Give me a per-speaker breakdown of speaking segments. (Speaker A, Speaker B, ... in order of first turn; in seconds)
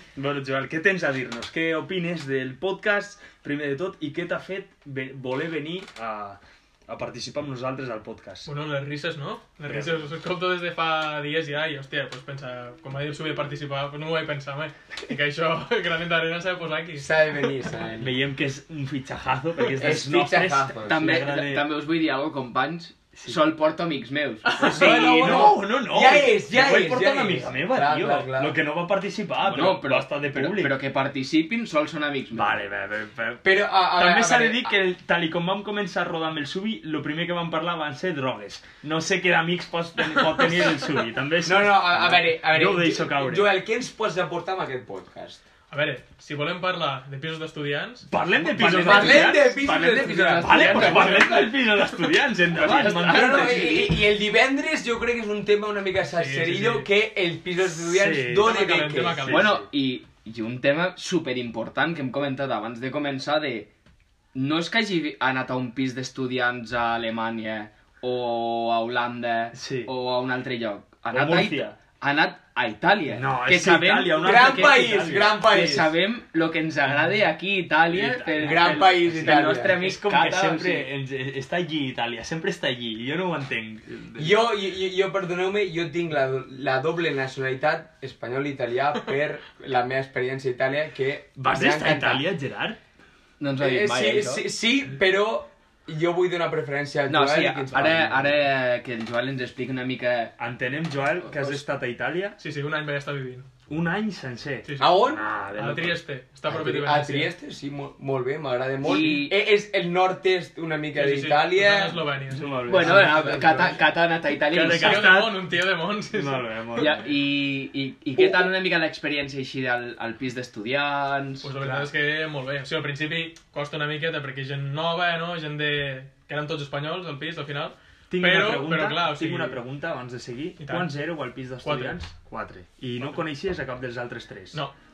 Speaker A: 0.1-8.5, 9.7-10.0, 18.0-21.7, 24.6-30.8, 32.3-43.5, 48.1-53.8, 57.8-58.6, 59.2-59.6, 69.5-69.9, 71.1-71.8, 73.1-75.9, 77.9-84.5, 91.4-92.8, 100.4-102.4, 103.7-106.0, 108.9-109.2, 112.3-113.7, 114.5-115.5, 116.1-117.0, 128.1-134.6
Speaker B: 8.5-17.1, 24.4-25.5, 45.7-49.5, 56.1-56.9, 58.4-59.6, 102.4-103.5, 104.7-105.0, 105.6-107.3, 110.9-112.5, 114.8-116.8, 121.4-129.6, 130.6-130.9, 131.6-132.0
Speaker C: 17.0-18.1, 19.8-21.2, 24.6-28.6, 33.4-34.7, 41.4-45.4, 48.6-51.5, 52.6-59.3, 74.2-75.9, 78.4-79.8, 84.2-92.2, 93.6-98.3, 104.8-105.2, 106.5-113.7, 118.2-118.5
Speaker D: 20.9-25.0, 29.4-32.6, 49.4-51.5, 52.5-54.0, 59.3-63.7, 64.3-80.9, 93.4-94.5, 97.1-100.4, 101.3-101.6, 108.8-109.4, 112.7-115.2, 116.8-121.5